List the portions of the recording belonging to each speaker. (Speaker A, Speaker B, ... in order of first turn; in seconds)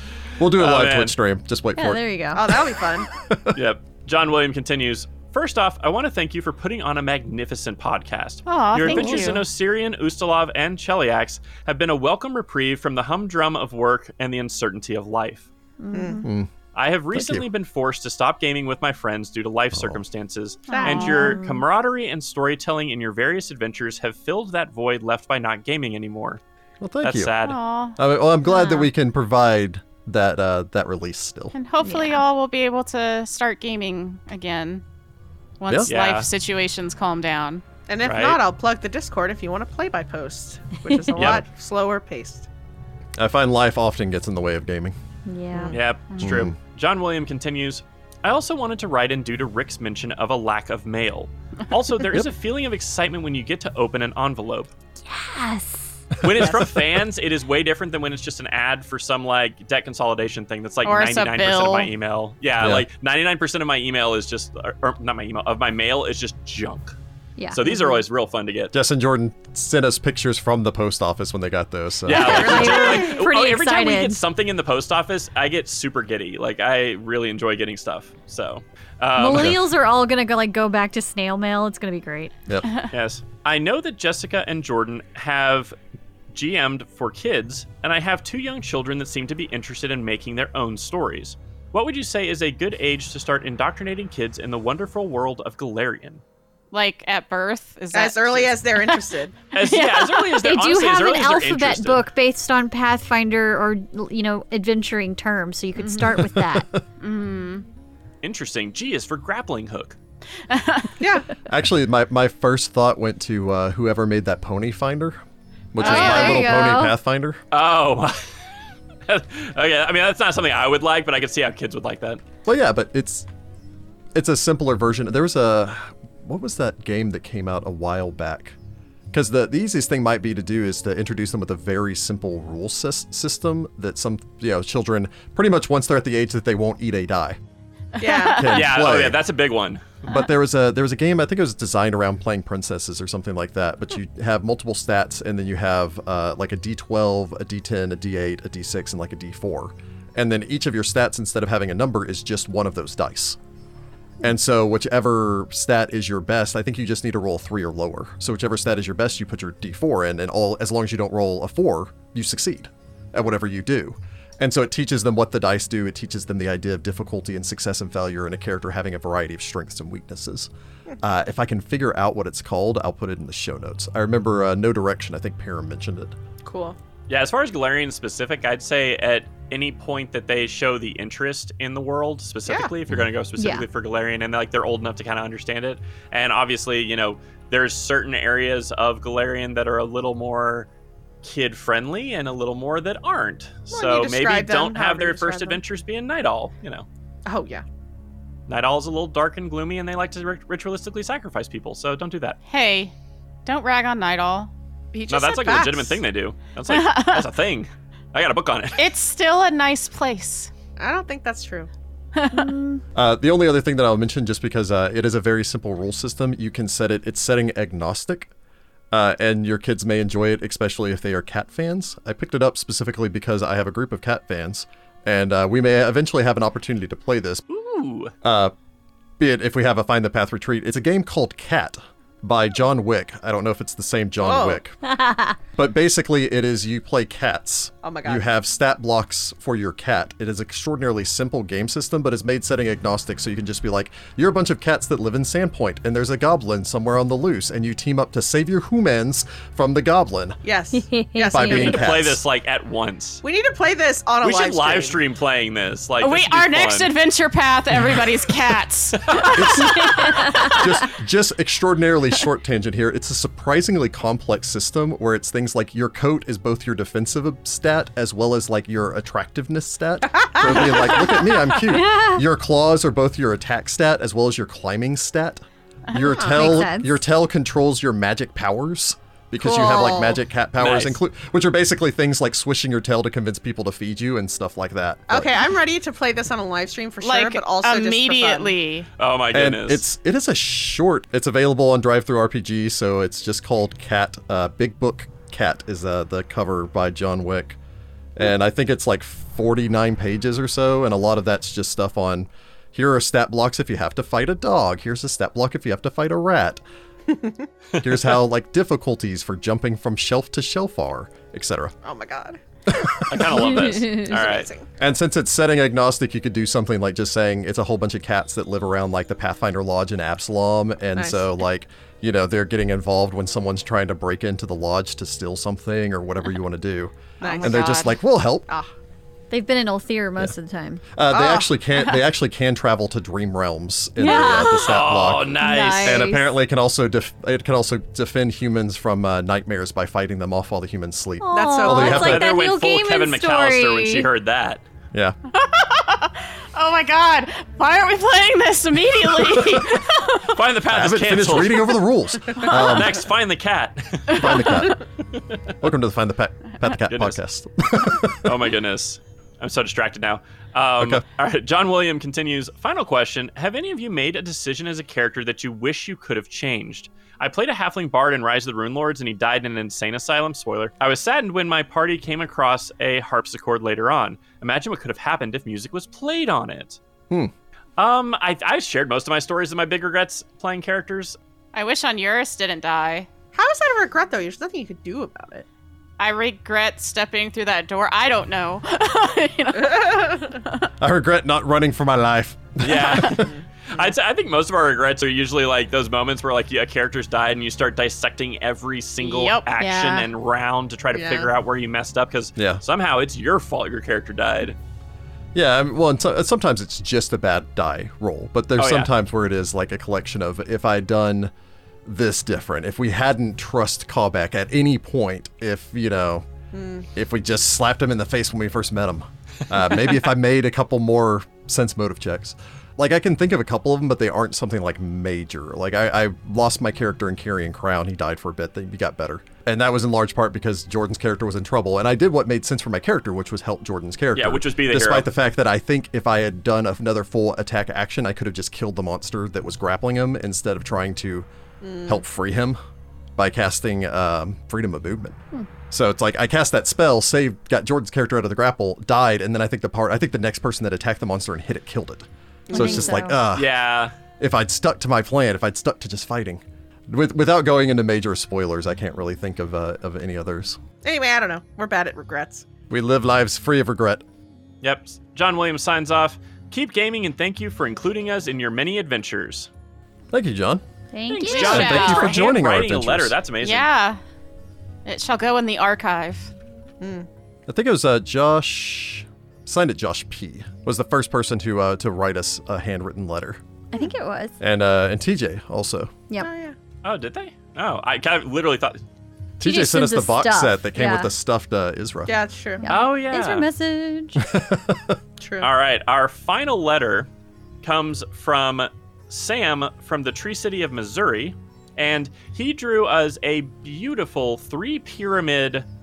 Speaker A: 0.4-3.6, 8.8-9.3, 16.2-16.5, 17.1-17.5, 19.7-20.0, 26.8-27.3, 28.0-31.5, 43.2-44.9, 46.2-46.5, 56.2-56.5, 62.6-62.9, 68.7-72.7, 79.3-79.6, 106.0-106.8, 111.5-115.2, 115.7-117.4, 122.5-123.3, 124.1-128.6, 129.1-137.4, 138.3-139.2, 140.0-153.4, 154.2-170.5, 171.0-176.1, 212.9-218.3, 218.9-227.4, 228.2-228.5, 229.2-234.8, 235.6-250.4, 251.3-252.2, 259.3-285.3, 289.3-297.6, 298.1-306.6, 307.8-311.7, 312.7-313.5, 314.8-328.5, 330.9-342.3, 349.4-349.8, 350.7-353.0, 354.1-354.8, 355.6-358.4, 360.8-361.0, 390.8-393.3, 402.4-402.6, 405.3-411.3, 411.8-416.2, 416.9-441.2, 441.9-442.6, 443.2-445.2, 445.7-453.6, 454.2-460.6, 462.7-464.0, 470.1-470.6, 471.4-473.2, 477.5-483.4, 484.4-485.9, 489.4-492.1, 494.2-495.0
Speaker B: 0.6-1.1, 3.5-15.5, 16.7-26.4, 27.0-27.6, 35.9-36.3, 38.0-38.4, 41.1-41.4, 45.7-54.7, 56.2-67.0, 67.5-68.7, 72.0-79.6, 82.9-85.7, 86.3-96.2, 99.5-102.0, 108.2-110.0, 117.5-118.3, 119.1-122.2, 138.4-140.0, 177.1-190.7, 191.2-196.8, 198.5-202.4, 205.1-208.8, 227.5-228.1, 251.5-253.2, 254.2-256.9, 259.0-259.6, 280.6-281.0, 289.0-289.8, 313.1-314.5, 334.0-336.1, 341.8-344.6, 350.3-351.8, 352.3-354.7, 356.9-357.2, 358.1-376.8, 377.8-381.2, 392.6-404.6, 408.6-408.9, 434.1-435.1, 453.3-453.9, 464.6-469.5, 471.1-473.7, 486.8-488.8, 492.7-493.4, 495.4-497.1, 497.6-505.6
Speaker C: 1.7-2.4, 15.8-16.2, 20.7-21.6, 28.5-28.9, 31.8-32.2, 45.2-45.8, 55.0-56.1, 67.4-67.9, 72.1-74.2, 79.2-82.3, 99.7-106.7, 115.8-116.9, 183.4-183.6, 212.3-212.8, 234.8-235.4, 250.7-251.7, 259.8-260.5, 271.6-272.2, 276.1-276.9, 313.5-314.1, 329.3-330.8, 334.0-334.8, 335.4-336.3, 341.2-344.1, 452.5-453.2, 470.9-471.9, 483.7-484.4, 489.4-491.1, 492.6-494.2
Speaker D: 2.3-3.1, 15.9-16.2, 20.7-21.4, 37.9-42.5, 45.5-45.8, 72.2-73.2, 97.9-99.3, 111.0-111.3, 138.0-138.5, 176.4-176.8, 182.4-182.7, 193.7-195.6, 197.2-197.6, 204.9-206.0, 210.8-211.7, 234.2-234.6, 237.8-238.3, 250.4-251.9, 253.2-255.0, 270.1-271.0, 276.0-276.6, 279.4-280.2, 285.1-288.6, 307.1-307.4, 311.8-312.4, 313.6-314.6, 320.9-321.2, 327.2-327.8, 331.1-331.5, 341.3-342.2, 383.3-385.4, 389.6-390.4, 393.1-393.9, 400.9-401.3, 416.5-416.9, 441.6-442.0, 452.5-453.0, 460.8-462.4, 476.8-477.1, 486.2-486.5, 492.1-492.6, 495.2-495.5
Speaker E: 8.4-9.4, 20.7-21.4, 27.4-28.0, 31.5-34.8, 35.6-37.6, 60.8-61.9, 82.7-82.9, 96.7-99.0, 107.0-107.6, 110.5-111.0, 115.8-116.4, 138.0-138.4, 202.5-202.9, 203.4-204.5, 206.7-207.3, 208.8-210.5, 212.1-212.5, 256.0-260.7, 287.0-288.9, 327.2-327.9, 345.3-350.4, 352.4-352.7, 381.5-383.1, 386.0-390.7, 399.0-400.1, 471.2-472.1, 473.4-474.0, 474.9-476.3